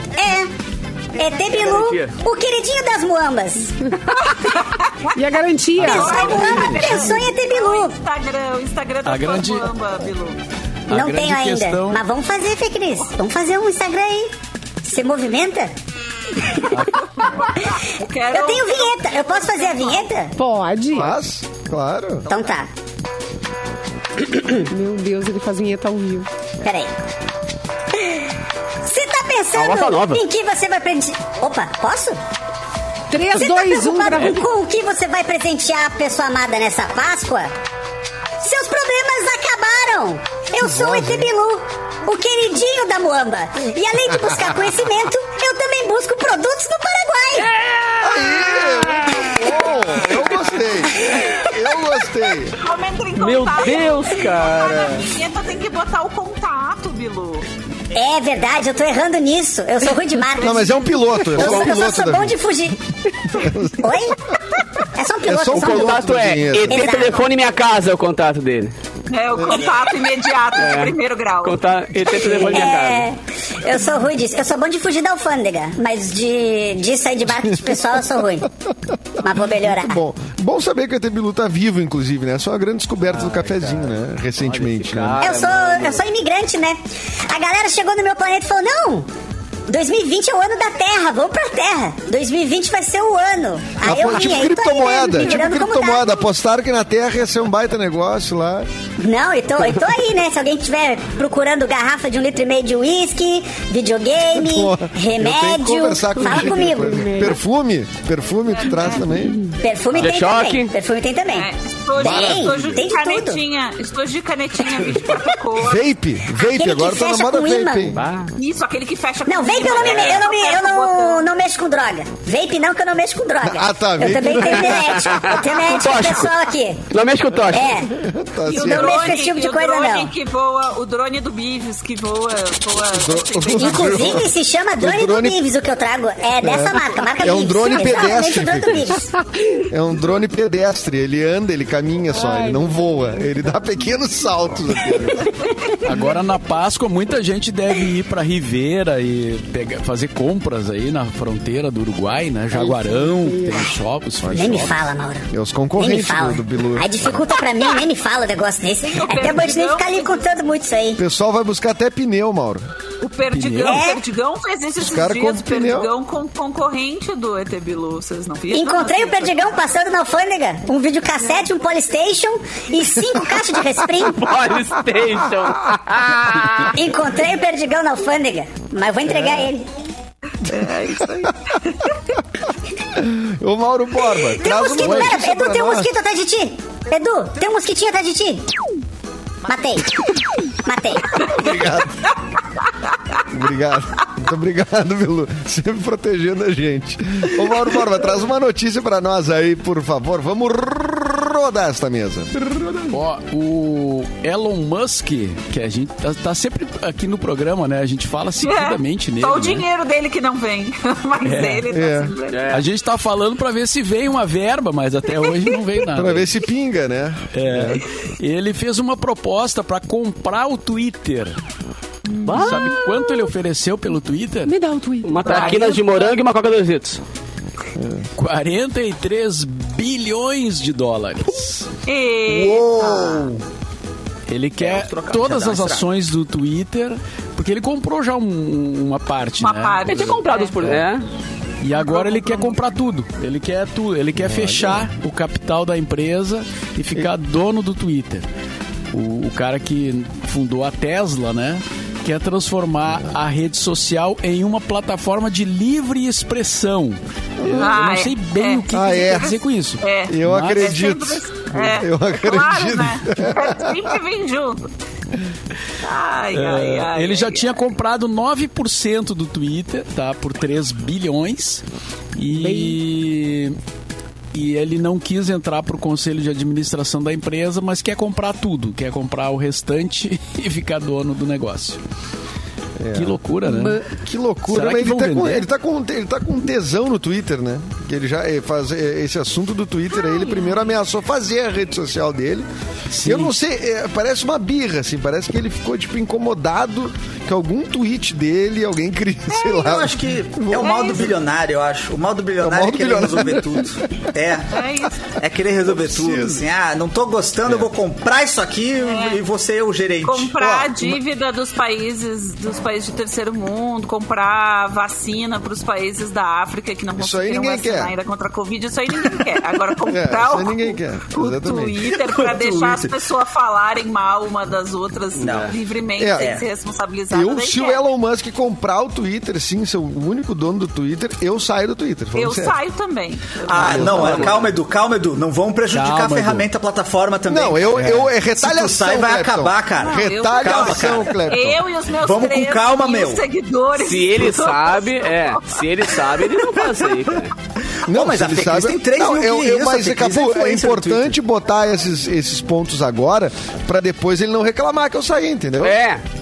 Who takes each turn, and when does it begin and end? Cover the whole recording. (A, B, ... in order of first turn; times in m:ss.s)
0:00.2-0:00.5 A
0:01.2-0:04.1 A
0:01.6-0:02.1 B
0:04.2-0:05.2 C
0:05.2-0:06.3 D
0:05.8-0:08.0 A
0:05.8-0:10.4 C
0:09.0-0:09.7 E
0:10.9-0:12.0 E
0:10.9-0:15.7 A
0:16.7-0:17.0 E
0:17.2-0:20.1 C
0:18.3-0:20.3 A
0:20.4-0:21.1 D
0:20.9-0:22.3 F
0:22.3-0:22.7 A
0:24.2-0:24.6 A
0:24.6-0:26.3 D
0:26.6-0:27.0 A
0:28.0-0:28.2 A
0:28.8-0:32.2 A
0:29.6-0:30.2 B
0:33.1-0:34.4 D
0:33.3-0:37.5 A
0:38.4-0:47.5 A
0:40.6-0:41.3 F
0:44.2-0:44.6 F
0:47.5-0:48.5 B
0:48.0-0:52.6 F
0:50.0-0:50.4 B
0:51.0-0:51.4 A
0:52.6-0:57.5 C
0:53.2-0:55.1 B
0:57.9-1:02.8 A
1:00.3-1:01.2 C
1:00.4-1:02.5 F
1:01.4-1:01.7 B
1:03.3-1:04.0 F
1:03.8-1:04.2 A
1:05.0-1:06.0 A
1:05.2-1:07.0 F
1:05.5-1:08.7 B
1:06.7-1:07.3 A
1:09.1-1:11.7 C
1:10.6-1:13.1 B
1:12.1-1:18.5 A
1:17.5-1:17.8 F
1:19.2-1:20.0 A
1:19.2-1:25.3 F
1:24.6-1:26.0 B
1:24.8-1:25.2 E
1:25.2-1:29.1 A
1:29.7-1:36.3 A
1:33.8-1:38.7 F
1:39.0-1:47.0 A
1:44.3-1:49.5 F
1:46.2-1:47.4 D
1:48.5-1:49.2 C
1:49.6-1:53.4 A
1:50.0-1:50.7 B
1:51.3-1:55.9 C
1:52.0-1:52.7 F
1:55.6-1:58.0 F
1:56.4-1:58.0 A
1:57.9-1:58.3 B
1:58.4-2:01.3 C
1:59.3-2:06.8 A
1:59.7-2:00.2 B
2:03.4-2:05.3 F
2:04.4-2:06.4 B
2:06.9-2:07.8 B
2:07.5-2:07.9 A
2:07.9-2:09.2 F
2:08.5-2:14.3 C
2:08.5-2:10.1 A
2:12.9-2:15.4 F
2:13.6-2:19.1 A
2:16.4-2:19.0 F
2:19.7-2:25.3 F
2:22.1-2:22.8 D
2:25.8-2:34.9 E
2:33.2-2:33.6 D
2:34.3-2:34.8 F
2:34.3-2:41.0 A
2:35.3-2:37.2 F
2:38.8-2:40.4 C
2:41.0-2:42.6 F
2:43.0-2:49.6 C
2:43.3-2:43.8 E
2:43.6-2:44.0 A
2:44.8-2:45.9 F
2:48.5-2:54.3 A
2:54.1-2:56.8 B
2:56.7-2:59.7 A
2:59.1-2:59.5 F
3:00.5-3:01.8 C
3:03.0-3:05.9 F
3:04.4-3:08.4 A
3:09.5-3:10.0 A
3:10.6-3:11.2 A
3:11.2-3:12.1 F
3:13.3-3:22.9 F
3:22.9-3:29.7 E
3:28.4-3:32.6 C
3:31.2-3:31.6 E
3:31.7-3:32.1 F
3:32.3-3:32.6 B
3:32.5-3:36.3 E
3:35.9-3:37.8 F
3:37.3-3:41.4 E
3:42.2-3:42.6 C
3:42.2-3:42.8 B
3:42.3-3:44.6 E
3:44.5-3:45.7 D
3:45.0-3:47.0 B
3:45.2-3:46.2 C
3:47.8-3:48.0 F
3:48.2-3:51.7 E
3:51.9-3:53.3 C
3:52.3-3:53.4 G
3:54.3-4:00.8 E
3:54.6-3:55.9 G
3:59.4-4:00.7 C
3:59.8-4:01.1 B
4:01.6-4:08.3 E
4:01.8-4:02.6 C
4:04.2-4:04.9 F
4:08.9-4:20.8 E
4:17.4-4:17.8 F
4:17.6-4:24.7 C
4:18.7-4:19.4 F
4:20.1-4:23.9 F
4:25.8-4:27.6 C
4:26.3-4:31.6 E
4:32.2-4:33.6 E
4:32.3-4:32.8 D
4:34.3-4:41.8 E
4:42.8-4:43.2 F
4:43.0-4:43.9 E
4:43.5-4:43.8 D
4:43.9-4:52.5 F
4:44.5-4:45.5 E
4:52.9-4:53.3 E
4:53.0-5:01.1 F
4:59.3-5:10.4 G
5:00.6-5:01.1 C
5:02.4-5:04.0 F
5:04.5-5:05.1 C
5:05.7-5:06.4 F
5:08.8-5:09.2 C
5:10.0-5:27.8 C
5:10.4-5:11.0 F
5:17.0-5:17.9 F
5:19.9-5:21.8 F
5:21.9-5:23.0 G
5:25.2-5:25.5 B
5:25.2-5:25.5 G
5:26.0-5:26.3 F
5:26.2-5:26.5 G
5:27.1-5:32.6 F
5:32.2-5:34.2 C
5:33.5-5:41.3 G
5:33.5-5:34.5 F
5:33.6-5:34.5 B
5:35.7-5:36.5 E
5:37.3-5:41.6 F
5:37.8-5:38.1 E
5:39.8-5:46.2 C
5:42.0-5:43.2 G
5:43.8-5:47.3 B
5:47.8-5:51.2 G
5:47.9-5:55.8 F
5:55.6-5:56.0 B